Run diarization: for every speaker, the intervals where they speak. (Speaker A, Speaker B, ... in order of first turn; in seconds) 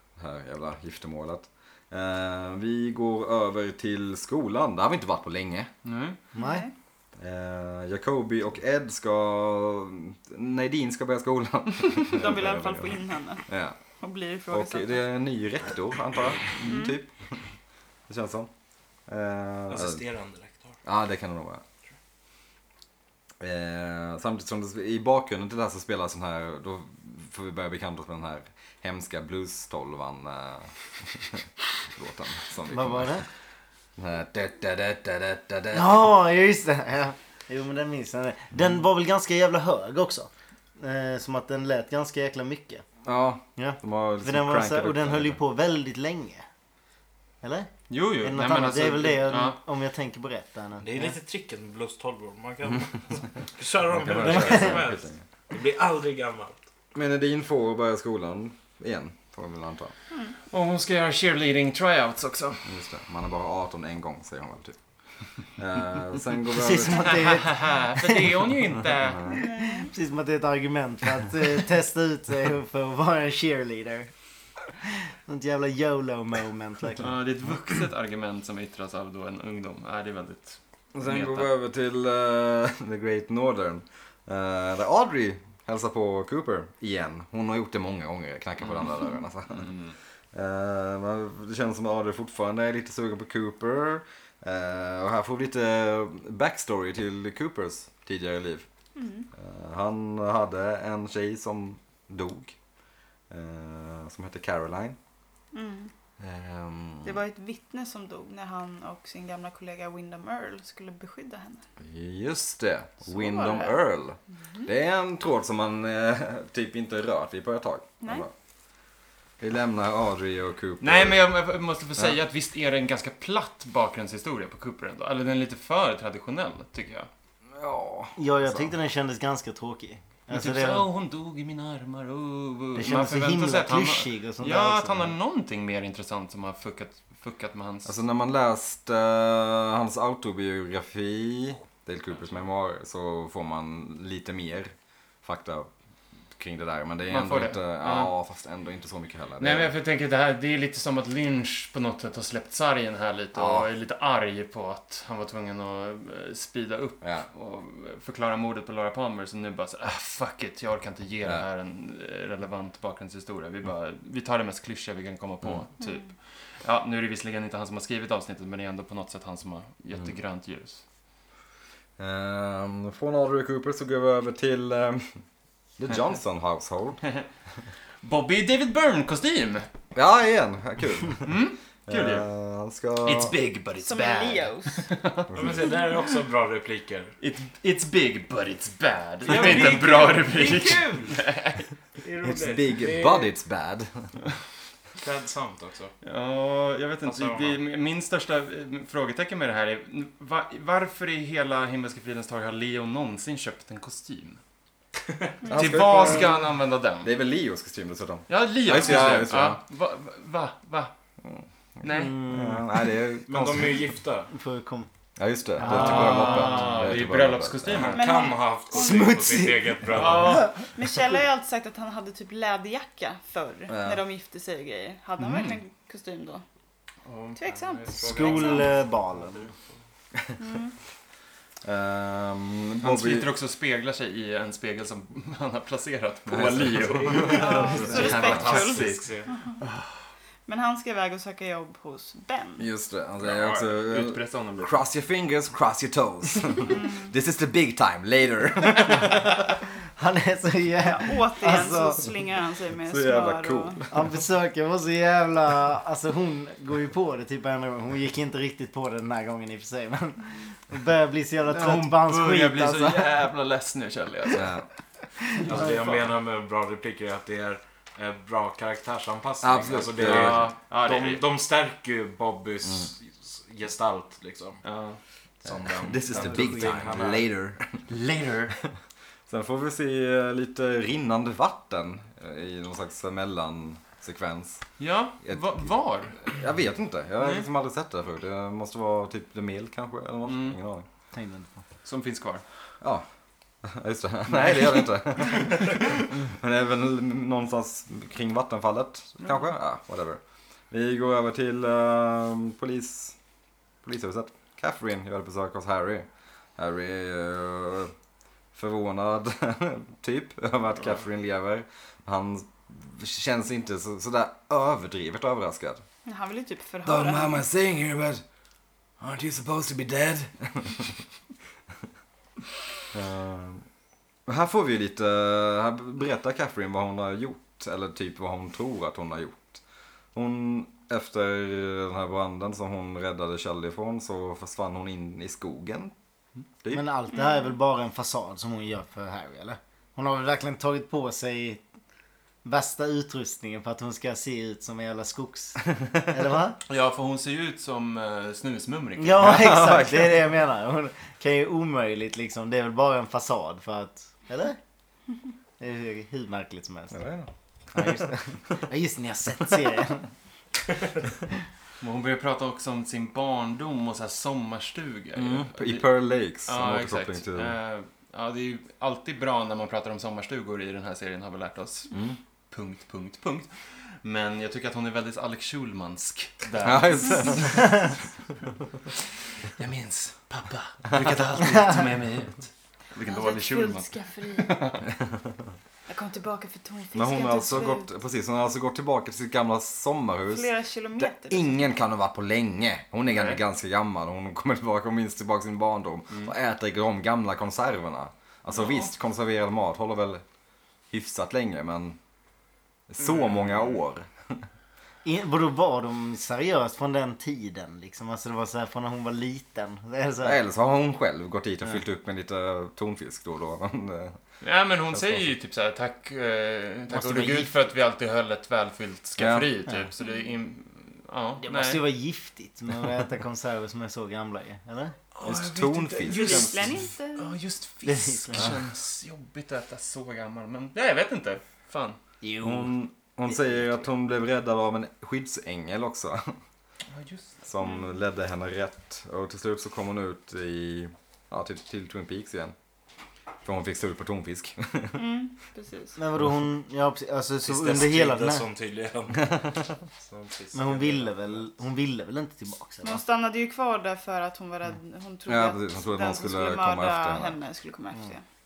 Speaker A: 0.2-5.7, 7.2-13.8, 14.5-17.4, 18.1-18.5, 19.1-20.0, 20.8-21.6, 23.4-33.2, 34.0-36.1, 43.0-45.4, 53.9-55.2, 56.9-59.9, 62.6-64.8, 65.6-67.2, 69.0-69.4, 80.9-89.8, 90.3-98.7, 99.4-102.6, 103.3-105.0, 106.2-107.2, 111.8-118.3, 119.4-121.2, 127.5-128.7, 137.8-145.7, 146.4-149.7, 153.3-153.7, 157.0-157.3, 172.0-175.2, 175.8-177.0, 179.9-181.3, 181.9-183.3, 185.3-185.6, 192.2-194.2, 205.5-206.4, 207.0-209.6, 211.2-213.8, 215.2-217.9, 223.7-224.0, 231.6-233.3, 236.3-238.5, 242.6-249.4, 252.8-254.1, 264.3-264.6, 269.4-270.5, 275.7-277.9, 279.3-284.7, 285.2-290.9, 293.6-300.2, 300.7-303.1, 303.8-307.9, 308.5-315.8, 316.9-318.2, 319.0-321.0, 322.9-323.6, 324.3-329.6, 330.1-335.9, 349.2-350.3, 356.9-358.1, 365.1-367.6, 371.9-372.2, 376.6-377.8, 386.9-400.2, 400.9-402.0, 402.9-404.4, 410.2-414.2, 414.9-415.3, 419.2-419.6, 425.2-426.7, 432.4-436.4, 437.4-442.6, 443.4-445.0, 455.3-457.4
Speaker B: 5.8-6.2, 47.9-49.6, 60.5-62.7, 67.0-69.4, 77.0-81.5, 89.6-89.9, 120.8-127.1, 130.3-137.9, 147.1-148.1, 149.4-170.8, 178.0-179.7, 181.2-182.3, 183.0-186.1, 187.2-191.7, 196.0-204.4, 205.5-207.1, 208.3-210.9, 211.8-212.2, 215.6-218.1, 219.9-220.6, 225.2-225.6, 227.1-228.7, 232.8-240.1, 243.2-244.8, 261.4-264.6, 265.5-266.1, 269.9-271.2, 274.6-275.0, 277.9-278.6, 284.8-286.4, 287.2-287.5, 290.2-290.6, 291.8-292.4, 294.3-295.9, 346.6-349.6, 361.8-365.9, 366.4-371.9, 372.5-377.8, 379.6-384.8, 393.1-393.4, 403.0-403.7, 414.4-421.9, 425.1-432.0, 436.9-437.3
Speaker C: 6.3-6.7, 32.7-33.2, 35.7-42.8, 43.6-46.4, 47.4-51.1, 54.3-54.6, 66.5-68.3, 69.3-74.1, 75.3-77.1, 128.2-130.8, 132.7-135.1, 211.9-212.8, 214.3-214.9, 218.7-220.6, 227.9-229.5, 250.0-252.1, 253.9-263.1, 276.3-277.0, 291.1-291.6, 336.7-341.6, 342.4-346.6, 349.0-354.6, 355.6-357.0, 357.7-360.1, 405.0-410.4, 416.9-417.6, 421.4-424.9, 427.9-428.5, 432.2-432.7, 433.3-433.8, 445.9-448.4, 450.5-453.0
Speaker D: 6.4-6.7, 12.0-13.4, 14.0-15.0, 16.6-17.0, 69.3-69.9, 98.9-99.3, 105.5-105.9, 107.0-111.6, 113.1-113.8, 118.0-118.3, 183.8-184.8, 217.9-219.1, 220.6-226.4, 227.4-228.7, 230.4-230.7, 237.3-239.6, 240.5-242.6, 246.7-247.1, 250.9-253.8, 316.1-317.4, 337.1-337.5, 383.1-384.7, 385.9-387.9, 390.3-391.6, 420.0-420.3, 426.0-427.3, 444.9-446.0, 452.8-458.2
Speaker E: 19.7-20.8, 50.8-56.6, 185.3-187.1, 189.2-191.2, 192.0-193.3, 195.0-195.9, 197.0-197.6, 213.3-214.3, 215.9-216.3, 217.7-220.6, 227.9-229.5, 237.1-239.3, 265.4-274.6, 275.4-277.3, 447.4-451.5